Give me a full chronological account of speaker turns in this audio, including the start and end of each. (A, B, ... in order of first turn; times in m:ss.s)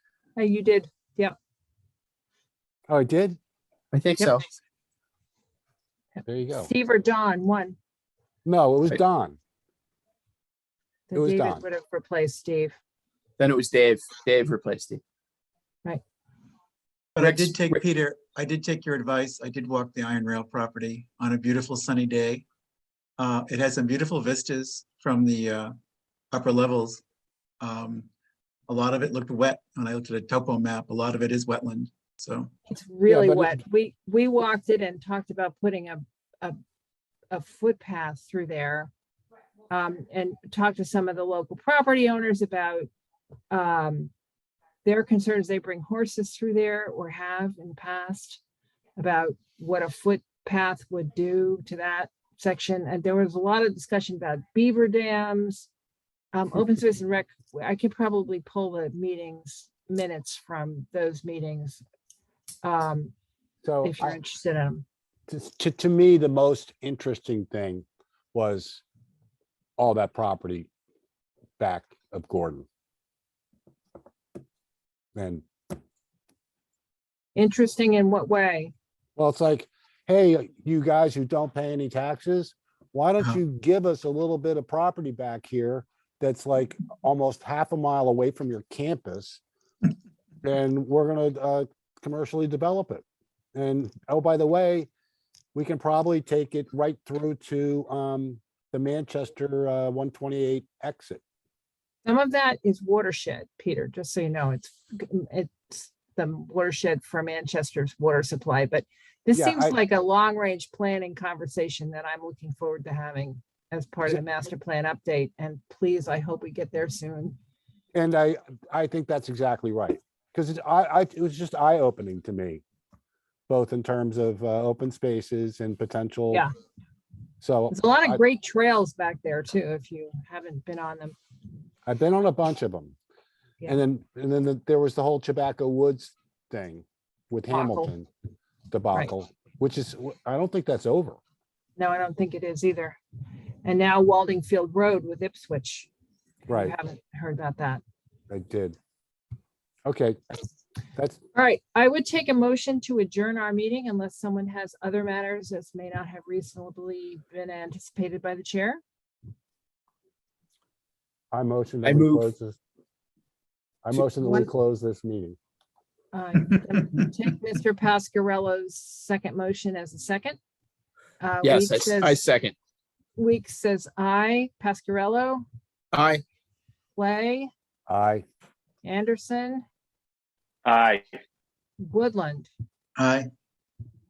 0:00.4-0:01.3 A
0:02.9-0:03.4 B
0:03.9-0:04.4 C
0:06.2-0:06.7 B
0:06.5-0:07.8 A
0:08.4-0:09.4 B
0:11.1-0:12.8 A
0:11.1-0:11.6 B
0:13.4-0:15.0 C
0:17.1-0:22.4 D
0:17.2-0:17.8 C
0:23.2-0:25.7 D
0:26.3-0:27.0 D
0:27.6-0:28.1 D
0:28.7-0:32.5 D
0:32.7-0:36.6 A
0:33.1-0:33.6 B
0:37.3-0:38.9 A
0:39.7-0:42.9 A
0:43.5-0:44.1 A
0:44.8-0:48.4 A
0:49.0-0:55.7 A
0:56.3-1:01.8 A
1:02.6-1:03.1 A
1:03.6-1:04.2 B
1:03.8-1:04.8 A
1:05.3-1:08.8 B
1:09.8-1:10.7 B
1:11.6-1:12.6 B
1:15.1-1:15.4 B
1:17.3-1:18.7 A
1:19.2-1:29.4 B
1:30.4-1:33.0 B
1:33.5-1:34.9 B
1:35.5-1:41.2 B
1:42.0-1:57.4 A
1:49.3-1:49.8 B
1:57.9-2:02.6 B
2:03.5-2:06.4 B
2:07.4-2:08.2 B
2:07.7-2:11.2 A
2:11.8-2:13.0 B
2:13.6-2:18.1 B
2:17.5-2:17.9 A
2:18.7-2:21.2 B
2:21.8-2:23.0 A
2:23.6-2:25.9 A
2:26.5-2:26.8 B
2:26.5-2:27.8 A
2:28.3-2:28.8 B
2:29.8-2:30.2 B
2:31.3-2:38.8 A
2:41.3-2:42.6 B
2:41.8-2:42.3 C
2:43.8-2:45.4 B
2:43.9-2:44.5 A
2:46.1-2:50.4 A
2:51.2-2:52.2 A
2:51.4-2:52.5 C
2:53.2-2:55.4 A
2:55.9-2:56.2 C
2:57.0-2:57.5 A
2:57.9-2:58.2 B
2:58.8-2:59.6 A
3:00.6-3:01.0 C
3:01.8-3:02.5 A
3:03.0-3:03.3 D